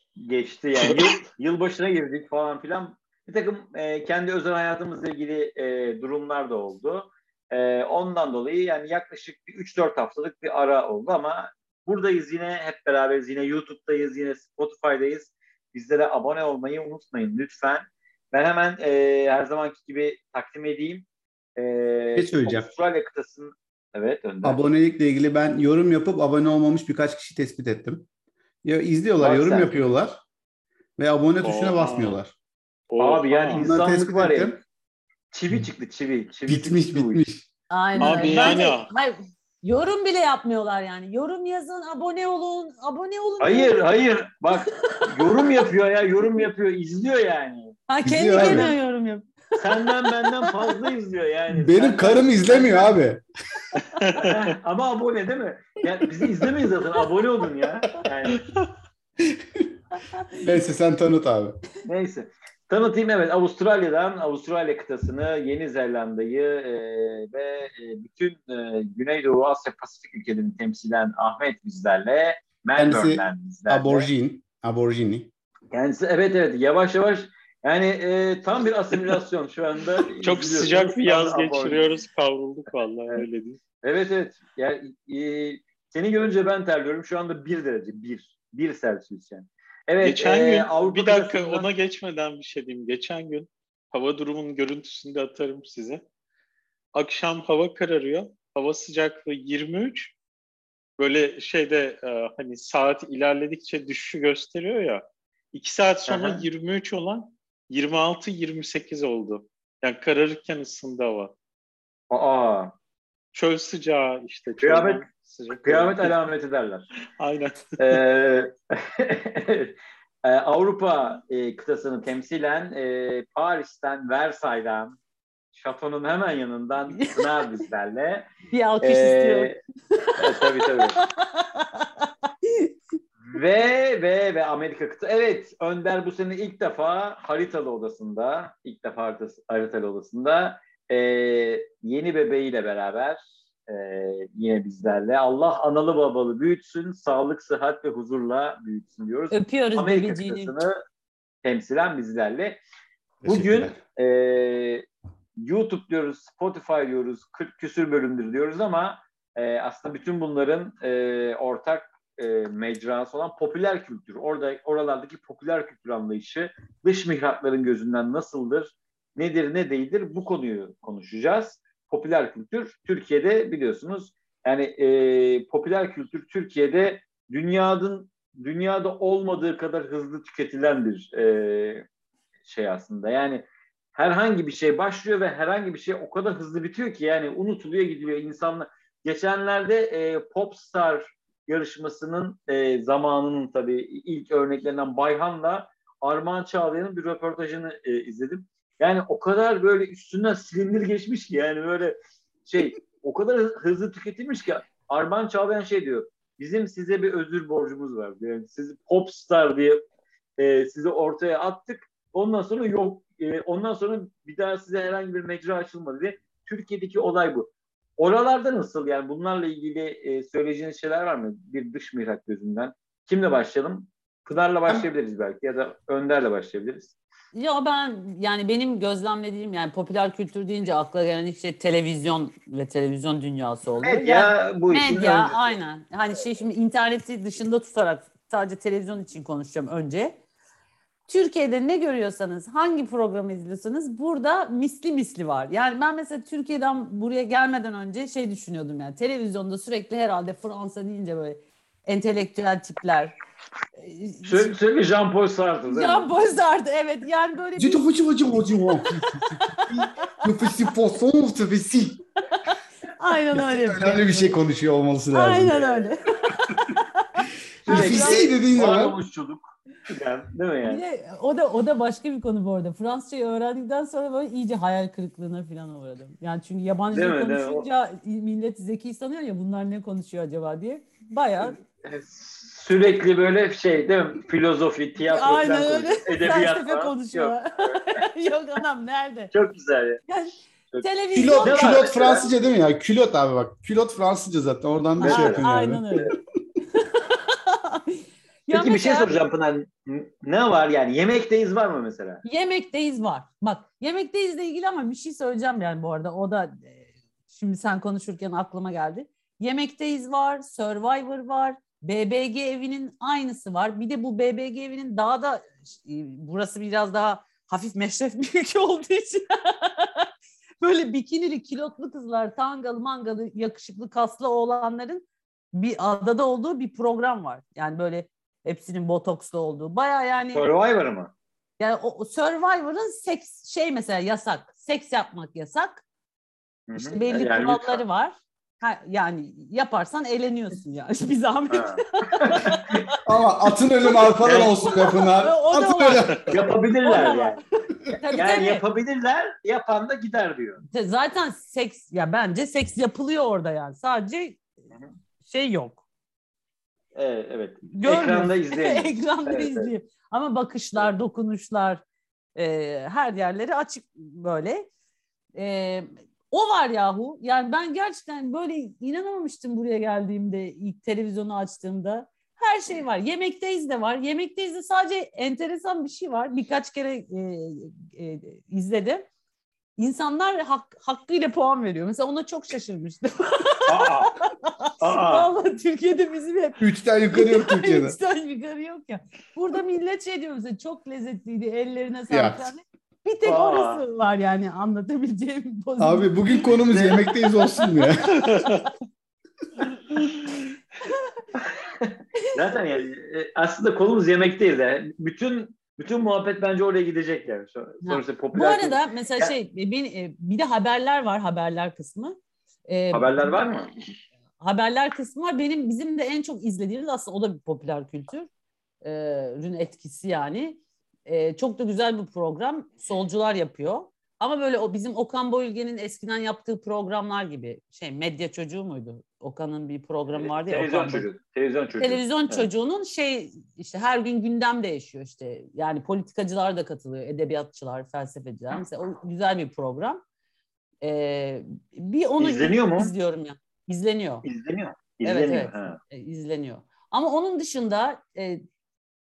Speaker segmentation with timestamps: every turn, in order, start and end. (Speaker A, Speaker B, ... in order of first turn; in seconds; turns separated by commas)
Speaker A: 0.2-24.6, Speaker B: 22.1-22.7, Speaker B: 24.4-28.1, Speaker B: 28.6-30.2, Speaker A: 29.2-29.7, Speaker B: 31.0-32.3, Speaker C: 31.4-32.2, Speaker C: 32.9-33.6, Speaker A: 33.0-34.6, Speaker B: 33.5-34.6, Speaker A: 35.3-37.2, Speaker B: 36.5-37.4, Speaker D: 37.7-43.7, Speaker A: 38.0-38.7, Speaker C: 38.0-38.9, Speaker A: 43.4-47.8, Speaker D: 44.7-45.4, Speaker D: 47.9-49.3, Speaker B: 48.0-48.7, Speaker A: 48.3-48.7, Speaker A: 49.5-52.9, Speaker B: 51.5-53.2, Speaker C: 53.9-54.5, Speaker A: 54.1-58.4, Speaker B: 59.3-59.7, Speaker D: 60.0-60.4, Speaker B: 60.4-61.6, Speaker A: 61.8-74.1, Speaker B: 72.8-75.3, Speaker A: 75.7-81.8, Speaker C: 80.1-83.6, Speaker A: 83.8-91.7, Speaker C: 90.0-96.0, Speaker C: 96.9-100.1, Speaker C: 101.0-111.3, Speaker A: 106.1-106.4, Speaker A: 112.1-112.7, Speaker C: 113.3-116.1, Speaker A: 114.6-115.0, Speaker A: 115.6-116.9, Speaker C: 117.2-118.0, Speaker A: 117.8-125.0, Speaker A: 125.5-128.3, Speaker D: 127.0-127.3, Speaker D: 128.5-132.7, Speaker A: 128.8-129.6, Speaker A: 130.2-131.0, Speaker A: 133.2-150.8, Speaker D: 149.3-150.5, Speaker A: 151.4-152.6, Speaker B: 153.2-153.7, Speaker A: 153.2-154.8, Speaker A: 155.4-181.8, Speaker A: 182.4-209.8, Speaker A: 210.4-226.9, Speaker D: 227.3-240.2, Speaker A: 233.8-235.6, Speaker D: 241.1-253.1, Speaker D: 253.8-254.5, Speaker A: 254.2-256.1, Speaker D: 255.7-257.8, Speaker B: 257.6-262.0, Speaker D: 258.9-260.7, Speaker D: 262.3-264.4, Speaker B: 263.3-265.6, Speaker D: 265.1-268.3, Speaker A: 265.5-265.9, Speaker B: 267.6-269.0, Speaker A: 267.6-270.8, Speaker D: 270.7-281.6, Speaker A: 276.9-277.7, Speaker A: 281.8-287.8, Speaker D: 285.1-289.3, Speaker A: 289.3-290.0, Speaker D: 290.1-292.0, Speaker B: 291.1-296.2, Speaker A: 291.4-292.3, Speaker D: 295.0-296.1, Speaker A: 295.0-295.4, Speaker D: 296.7-299.1, Speaker A: 298.5-302.2, Speaker D: 302.2-320.1, Speaker D: 320.6-330.4, Speaker A: 330.3-331.1, Speaker D: 331.6-335.8, Speaker A: 336.7-337.8, Speaker D: 336.8-342.9, Speaker A: 341.5-342.8, Speaker B: 343.0-346.3, Speaker D: 343.8-348.6, Speaker A: 344.2-344.6, Speaker A: 346.3-347.4, Speaker A: 348.1-350.6, Speaker D: 350.7-354.4, Speaker D: 355.2-355.8, Speaker A: 356.9-359.7, Speaker D: 357.7-361.8, Speaker D: 362.4-364.7, Speaker D: 365.4-379.1, Speaker D: 379.8-396.1, Speaker A: 383.7-384.1, Speaker A: 384.8-385.3, Speaker B: 386.6-388.0, Speaker B: 392.1-392.5, Speaker A: 393.2-393.8, Speaker B: 395.8-398.4, Speaker A: 396.6-397.0, Speaker D: 396.9-398.7, Speaker C: 398.1-398.6, Speaker A: 401.4-409.3, Speaker D: 407.8-413.4, Speaker A: 412.9-413.7, Speaker D: 414.4-418.3, Speaker D: 418.8-431.1, Speaker A: 430.1-432.5, Speaker D: 431.8-440.0, Speaker D: 440.8-444.2, Speaker A: 442.2-442.9, Speaker A: 444.2-445.8, Speaker D: 445.0-448.4